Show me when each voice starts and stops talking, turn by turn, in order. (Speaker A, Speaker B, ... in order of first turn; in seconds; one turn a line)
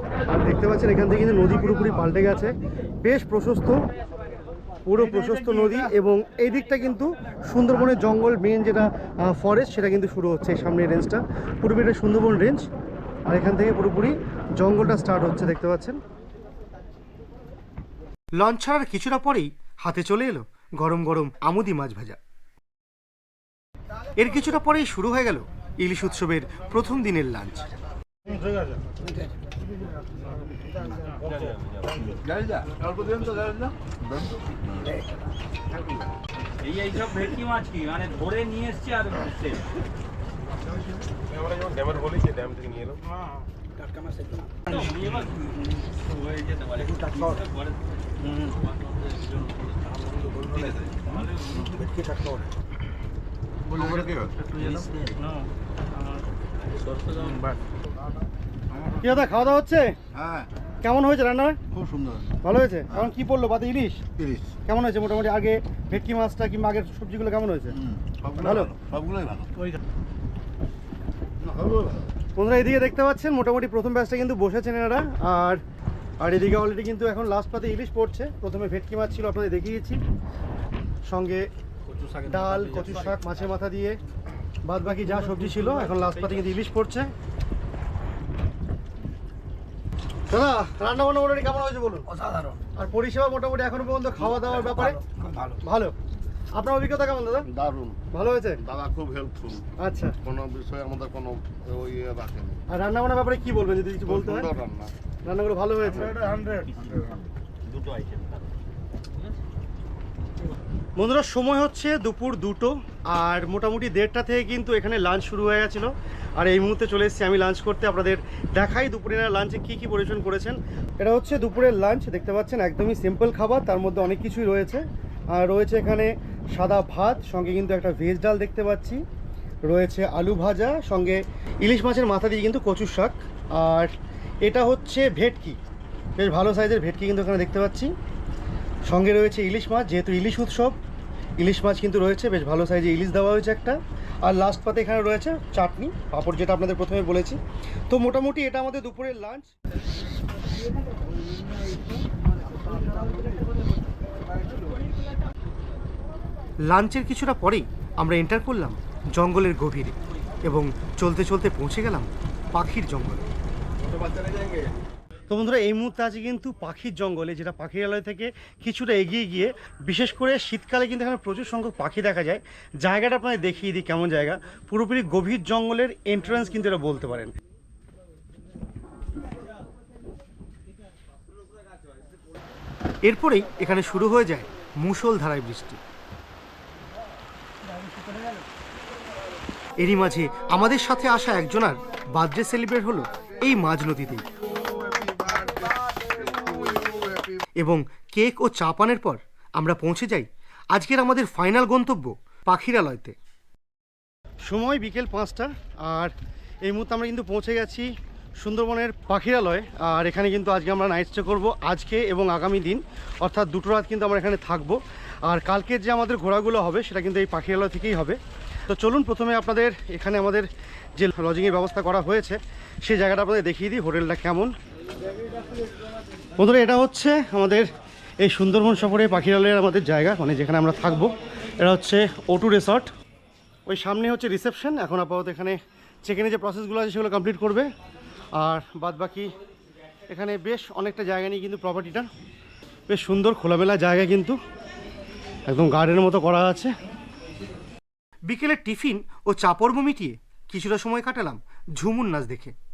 Speaker A: 0.2-3.8
Speaker A: 4.8-12.6
Speaker A: 13.3-16.0
Speaker A: 18.4-22.2
Speaker A: 24.2-27.8
Speaker B: 36.6-39.6
Speaker B: 44.7-45.5
Speaker B: 46.3-47.5
Speaker B: 48.2-48.5
Speaker B: 53.8-55.5
Speaker B: 56.9-57.6
Speaker A: 59.0-60.0
Speaker A: 60.8-61.6
Speaker A: 62.4-64.0
Speaker A: 64.7-67.8
Speaker A: 68.4-68.7
Speaker A: 72.4-75.6
Speaker A: 76.2-80.0
Speaker A: 81.1-81.5
Speaker A: 82.2-84.0
Speaker A: 84.6-87.1
Speaker A: 90.3-92.1
Speaker A: 92.8-95.0
Speaker A: 95.6-96.0
Speaker A: 96.5-97.5
Speaker C: 97.5-98.0
Speaker A: 98.1-98.6
Speaker C: 98.6-99.7
Speaker A: 99.8-100.2
Speaker C: 100.2-102.6
Speaker A: 102.7-104.5
Speaker C: 104.1-104.9
Speaker A: 105.2-106.2
Speaker B: 106.0-108.4
Speaker A: 111.0-129.0
Speaker A: 129.7-135.6
Speaker A: 136.2-137.9
Speaker A: 138.9-140.8
Speaker A: 141.4-149.5
Speaker A: 156.7-163.2
Speaker A: 165.3-177.3
Speaker A: 183.0-185.8
Speaker A: 189.8-194.2
Speaker A: 197.6-203.2
Speaker A: 204.5-206.1
Speaker A: 206.7-207.9
Speaker A: 208.4-224.5
Speaker A: 226.4-227.7
Speaker A: 228.2-232.9
Speaker A: 233.7-237.7
Speaker A: 238.4-239.3
Speaker A: 240.1-242.1
Speaker A: 242.9-244.4
Speaker A: 245.5-246.7
Speaker A: 248.3-252.6